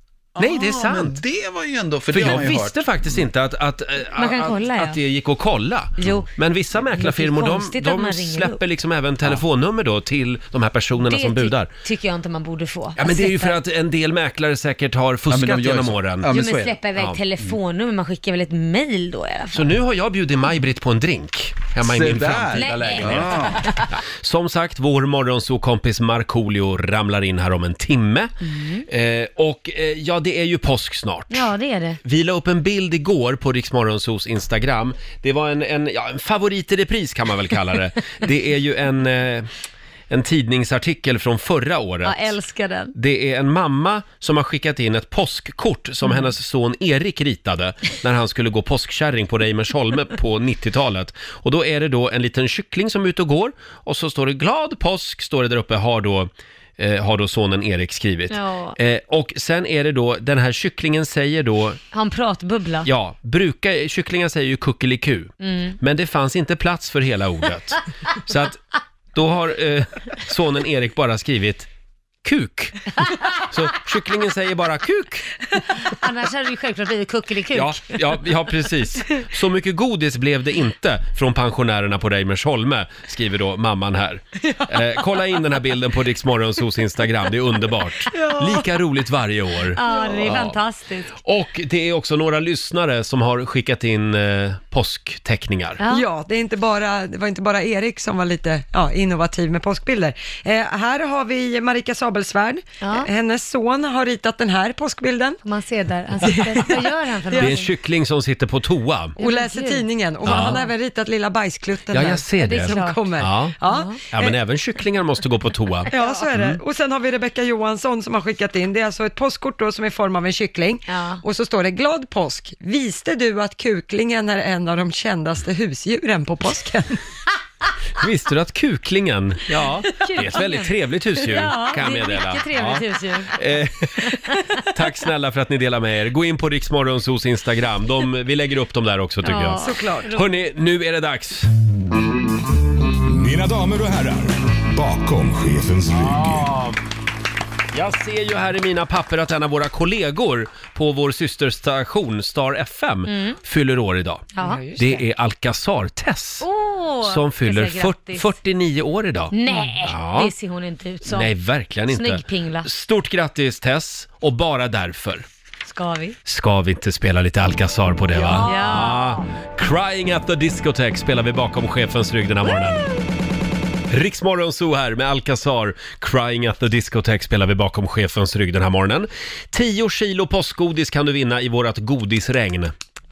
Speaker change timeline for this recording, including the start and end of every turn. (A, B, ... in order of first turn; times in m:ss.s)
0:00.4-0:03.2 A
0:00.4-0:01.2 B
0:02.1-0:11.7 B
0:04.2-0:05.0 C
0:06.0-0:06.3 C
0:06.9-0:08.6 C
0:11.0-0:13.6 C
0:13.0-0:16.3 B
0:15.3-0:16.8 A
0:16.3-0:19.8 C
0:19.5-0:28.3 B
0:21.8-0:23.8 A
0:22.5-0:23.8 C
0:28.4-0:28.8 C
0:28.9-0:31.5 B
0:31.3-0:32.0 C
0:32.0-0:39.5 B
0:40.1-0:42.4 B
0:42.0-0:42.9 C
0:42.9-1:01.8 B
0:58.3-0:58.8 C
1:01.9-1:02.9 C
1:02.8-1:08.6 B
1:05.4-1:05.8 C
1:09.1-1:11.7 B
1:12.2-1:15.3 B
1:15.7-1:18.2 C
1:17.5-1:30.5 B
1:28.1-1:28.6 D
1:29.8-1:31.1 C
1:29.8-1:30.3 D
1:31.2-1:35.8 B
1:35.8-1:36.1 C
1:35.9-1:45.4 D
1:42.8-1:43.1 C
1:45.4-1:47.7 C
1:46.2-1:47.6 D
1:47.4-1:49.2 B
1:49.2-1:50.7 C
1:49.2-1:54.2 D
1:50.2-1:50.6 B
1:51.9-1:53.6 B
1:52.4-1:54.0 C
1:54.1-1:56.6 B
1:55.9-1:56.3 C
1:55.9-2:07.0 D
2:00.9-2:01.2 C
2:08.0-2:14.2 B
2:09.8-2:13.3 C
2:14.7-2:21.5 B
2:19.2-2:20.2 C
2:19.6-2:20.1 D
2:23.1-2:26.5 E
2:25.9-2:26.8 B
2:27.7-2:36.5 B
2:33.1-2:33.4 C
2:34.3-2:34.6 C
2:34.4-2:35.0 D
2:36.4-2:38.3 C
2:37.0-2:40.3 B
2:39.3-2:41.3 C
2:41.0-2:45.2 B
2:41.9-2:42.7 C
2:45.6-2:46.2 C
2:46.2-2:52.8 B
2:48.1-2:49.3 C
2:53.9-3:02.7 B